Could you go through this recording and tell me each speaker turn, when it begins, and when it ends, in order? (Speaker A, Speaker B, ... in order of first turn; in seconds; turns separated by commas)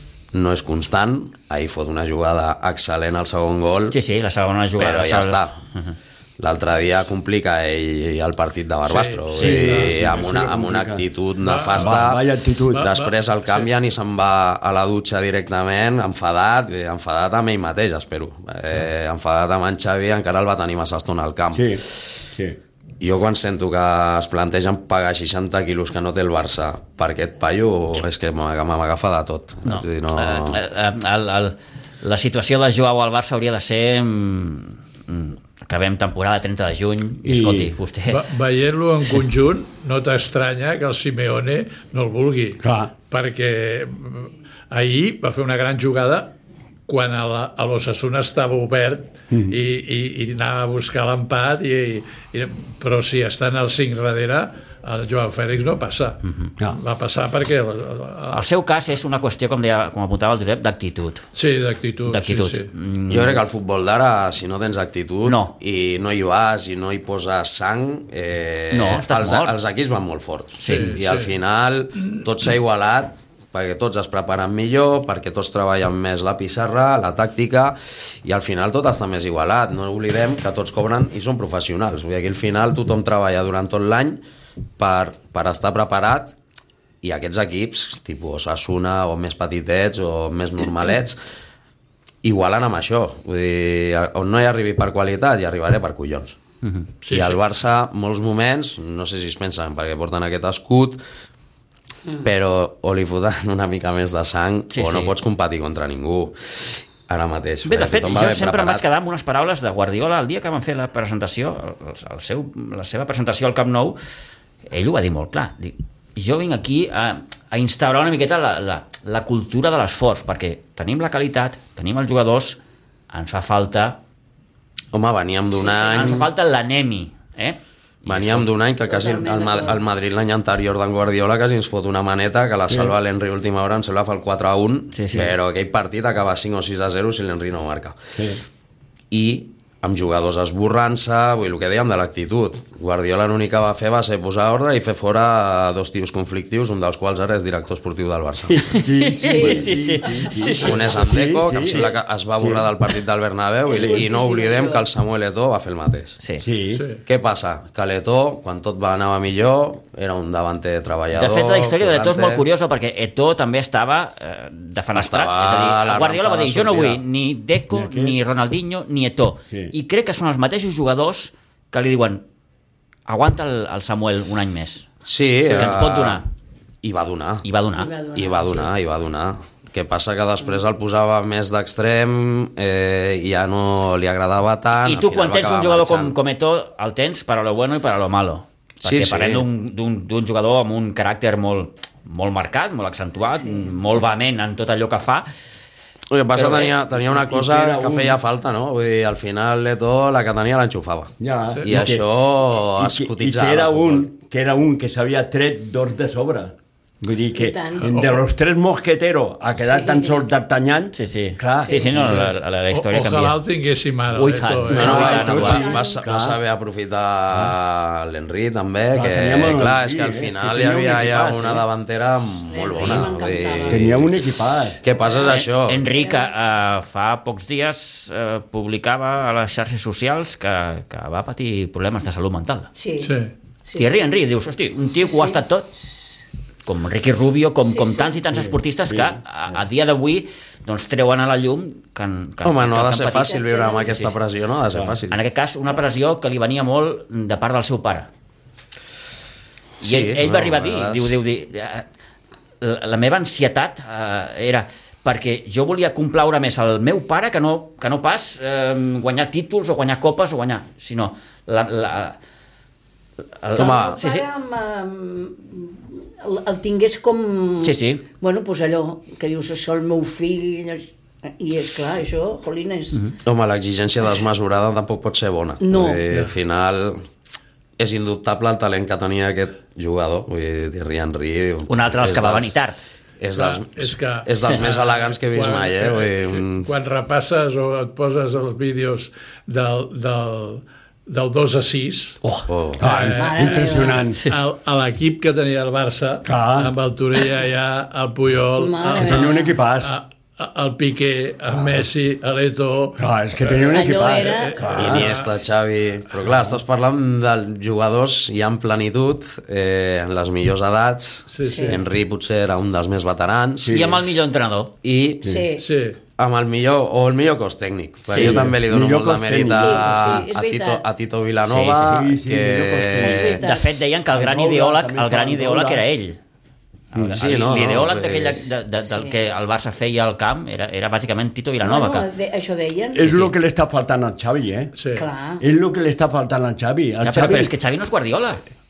Speaker A: 0.3-4.0, Speaker B: 3.9-6.0, Speaker A: 4.8-5.6, Speaker A: 6.4-21.9, Speaker C: 8.8-10.5, Speaker D: 9.4-11.0, Speaker C: 11.4-12.1, Speaker D: 11.8-12.9, Speaker C: 12.7-13.7, Speaker D: 21.5-22.6, Speaker A: 23.0-30.6, Speaker B: 29.6-38.2, Speaker D: 37.2-37.7, Speaker C: 38.1-46.3, Speaker D: 42.6-42.9, Speaker C: 46.9-58.4, Speaker D: 49.3-49.6, Speaker B: 58.3-61.3, Speaker C: 61.4-62.7, Speaker B: 62.0-63.4, Speaker A: 63.1-84.2, Speaker B: 65.2-65.5, Speaker B: 68.7-69.6, Speaker B: 70.6-71.0, Speaker C: 70.7-71.3, Speaker A: 84.8-86.3, Speaker A: 87.0-91.2, Speaker A: 92.2-96.4, Speaker C: 97.0-97.4, Speaker A: 97.1-101.0, Speaker A: 102.2-108.8, Speaker B: 104.7-105.1, Speaker B: 107.7-114.0, Speaker B: 114.7-122.6, Speaker B: 123.1-124.0, Speaker A: 124.9-126.3, Speaker B: 125.6-128.5, Speaker A: 128.1-138.2, Speaker E: 128.9-129.8, Speaker D: 132.7-132.9, Speaker B: 134.9-135.3, Speaker D: 138.2-138.4, Speaker A: 139.1-148.7, Speaker D: 148.5-152.7, Speaker B: 148.7-150.9, Speaker E: 149.2-149.6, Speaker A: 150.6-156.2, Speaker E: 153.7-154.8, Speaker D: 153.8-154.0, Speaker D: 156.4-156.8, Speaker C: 156.7-157.0, Speaker A: 157.1-162.4, Speaker B: 161.1-172.2, Speaker A: 164.9-167.0, Speaker D: 167.7-168.2, Speaker B: 173.1-174.9, Speaker A: 175.1-176.2, Speaker D: 175.5-175.8, Speaker B: 175.6-176.3, Speaker A: 176.8-177.4, Speaker B: 177.4-177.9, Speaker E: 177.8-178.5, Speaker A: 178.1-186.2, Speaker B: 184.8-195.3, Speaker A: 188.8-189.5, Speaker A: 196.1-204.1, Speaker D: 196.3-198.2, Speaker D: 201.2-202.1, Speaker D: 202.8-212.3, Speaker E: 207.4-208.0, Speaker C: 207.9-208.2, Speaker E: 209.6-210.2, Speaker B: 210.9-213.4, Speaker E: 211.7-212.0, Speaker C: 212.0-215.6, Speaker B: 214.1-215.8, Speaker A: 214.7-224.2, Speaker D: 214.7-216.4, Speaker E: 215.0-216.0, Speaker D: 218.9-221.7, Speaker E: 222.5-223.9, Speaker D: 223.7-224.8, Speaker A: 224.8-225.9, Speaker E: 224.9-225.4, Speaker B: 225.3-232.7, Speaker E: 225.9-226.3, Speaker E: 232.8-234.1, Speaker C: 233.0-233.3, Speaker B: 233.8-235.7, Speaker E: 235.0-235.4, Speaker B: 236.7-244.1, Speaker E: 237.6-238.3, Speaker D: 238.3-239.2, Speaker A: 242.4-245.2, Speaker E: 243.3-244.0, Speaker B: 245.1-248.1, Speaker A: 249.8-251.2, Speaker B: 249.8-251.9, Speaker B: 252.6-262.2, Speaker B: 263.4-264.3, Speaker E: 263.6-273.2, Speaker A: 263.6-264.0, Speaker B: 267.6-268.1, Speaker A: 273.2-277.1, Speaker E: 275.6-276.1, Speaker A: 277.8-282.6, Speaker B: 281.7-282.8, Speaker A: 283.2-286.7, Speaker C: 283.4-292.2, Speaker B: 292.2-292.5, Speaker A: 292.5-292.9, Speaker D: 292.8-294.2, Speaker C: 292.8-305.3, Speaker E: 293.1-294.1, Speaker D: 296.2-296.7, Speaker E: 298.6-299.6, Speaker D: 298.9-299.9, Speaker D: 303.0-305.1, Speaker E: 303.7-304.6, Speaker A: 304.8-313.9, Speaker C: 311.3-311.8, Speaker E: 311.4-311.8, Speaker D: 313.6-314.0, Speaker B: 313.7-314.7, Speaker A: 314.8-315.3, Speaker E: 315.2-315.7, Speaker C: 315.6-316.0, Speaker A: 316.2-323.4, Speaker B: 318.1-318.5, Speaker D: 318.1-320.2, Speaker E: 319.5-320.8, Speaker B: 321.5-322.0, Speaker D: 321.8-323.4, Speaker E: 323.0-323.7, Speaker B: 323.0-326.2, Speaker D: 324.1-325.9, Speaker B: 326.9-332.1, Speaker A: 327.2-328.5, Speaker E: 331.6-333.2, Speaker D: 332.9-334.7, Speaker B: 332.9-333.3, Speaker C: 334.8-335.1, Speaker E: 334.9-335.4, Speaker D: 335.4-337.5, Speaker B: 337.0-338.5